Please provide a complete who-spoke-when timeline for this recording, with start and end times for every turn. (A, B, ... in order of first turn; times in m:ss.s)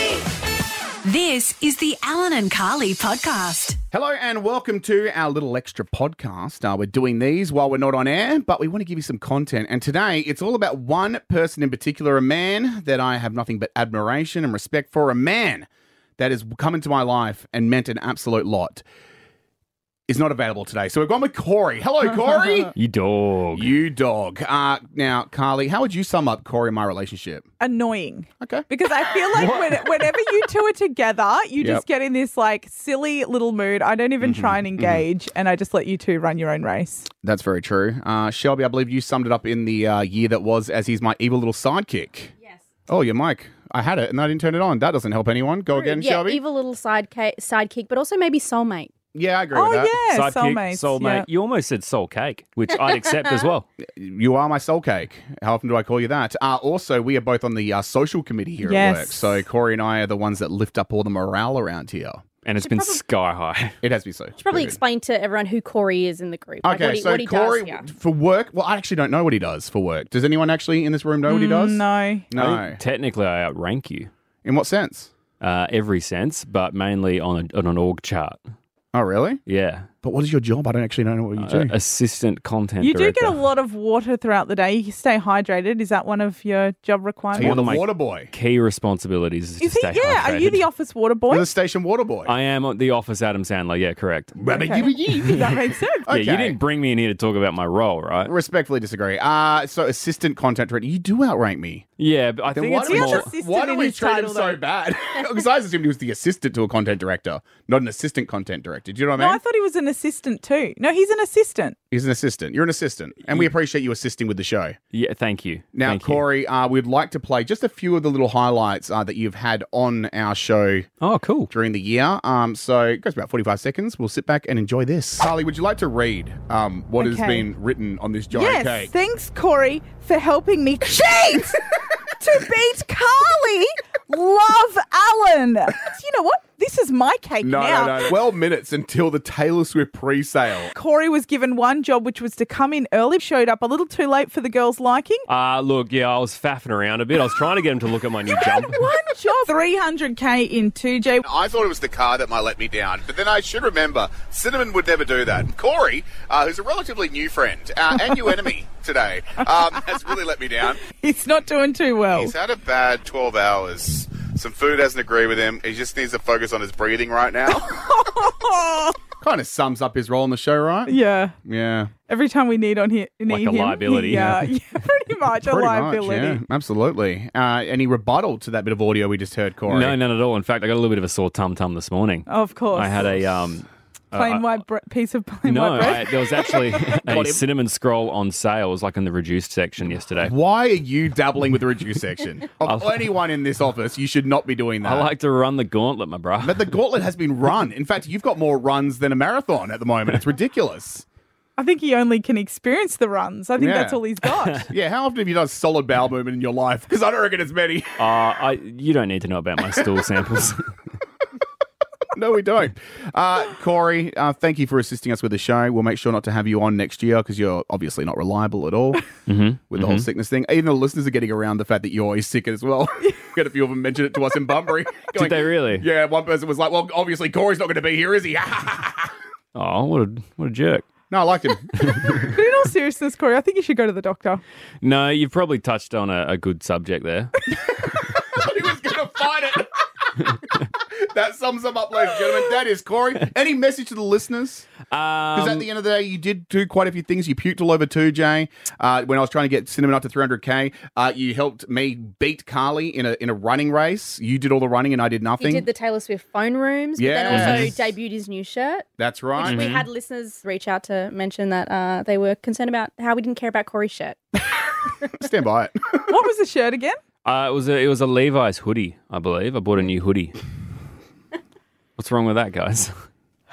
0:01.1-0:03.8 A
0:03.9-0:15.7 B
0:16.2-0:18.8 B
0:20.1-0:22.7 B
0:22.8-0:23.7 C
0:23.5-0:27.5 B
0:27.6-0:37.1 D
0:28.4-0:28.7 B
0:34.2-0:35.0 B
0:37.2-0:42.3 B
0:42.9-0:46.4 B
0:45.7-0:48.9 E
0:49.1-0:50.0 B
0:49.5-0:51.2 D
0:50.0-0:53.7 C
0:53.8-1:02.2 B
0:58.6-0:59.4 D
1:02.4-1:03.8 C
1:02.6-1:03.0 E
1:03.8-1:04.8 B
1:04.4-1:07.9 E
1:06.6-1:12.8 B
1:11.2-1:12.2 D
1:12.3-1:14.1 C
1:14.4-1:15.1 B
1:15.4-1:18.4 C
1:18.9-1:19.4 B
1:19.4-1:19.9 C
1:20.0-1:21.7 B
1:21.4-1:23.4 C
1:22.8-1:27.7 D
1:27.3-1:28.3 B
1:27.4-1:30.6 C
1:29.6-1:31.5 D
1:31.3-1:32.3 B
1:32.2-1:34.4 C
1:34.4-1:35.4 B
1:34.6-1:36.1 D
1:36.1-1:36.6 B
1:36.1-1:38.3 C
1:38.2-1:41.8 B
1:42.0-1:43.3 C
1:42.5-1:49.4 B
1:42.9-1:44.6 D
1:49.2-1:51.8 D
1:51.9-1:54.8 B
1:54.9-1:56.2 C
1:55.8-2:00.9 B
2:01.0-2:01.5 C
2:01.5-2:08.9 B
2:07.0-2:07.5 D
2:08.3-2:18.1 D
2:17.4-2:20.7 B
2:20.7-2:25.2 D
2:25.3-2:29.0 C
2:28.3-2:31.2 D
2:31.2-2:40.8 B
2:40.8-2:42.3 D
2:42.1-2:48.2 B
2:47.6-2:49.0 D
2:49.2-2:51.9 B
2:50.9-2:51.3 D
2:52.1-2:56.4 D
2:53.3-2:54.4 C
2:54.1-2:54.5 B
2:55.3-3:00.0 B
2:59.7-3:04.6 C
3:02.3-3:03.1 D
3:04.1-3:06.9 D
3:05.4-3:10.3 C
3:07.0-3:07.4 B
3:10.2-3:15.1 B
3:12.6-3:13.1 C
3:14.8-3:16.7 C
3:16.4-3:21.0 B
3:21.6-3:24.7 D
3:23.6-3:24.0 B
3:24.6-3:28.0 B
3:28.0-3:30.6 C
3:32.1-3:39.1 B
3:39.3-3:40.1 C
3:39.7-3:49.1 B
3:45.1-3:45.8 C
3:49.5-3:50.9 C
3:51.1-3:52.3 B
3:51.8-3:52.1 C
3:52.2-3:54.4 D
3:54.8-3:57.4 C
3:57.9-4:00.2 B
4:00.7-4:04.7 B
4:04.9-4:05.7 C
4:05.3-4:15.7 B
4:15.4-4:24.4 E
4:17.0-4:17.9 B
4:17.3-4:17.7 C
4:19.0-4:19.6 B
4:19.4-4:19.9 C
4:25.2-4:26.0 B
4:26.1-4:27.0 D
4:27.2-4:30.4 C
4:32.0-4:32.9 C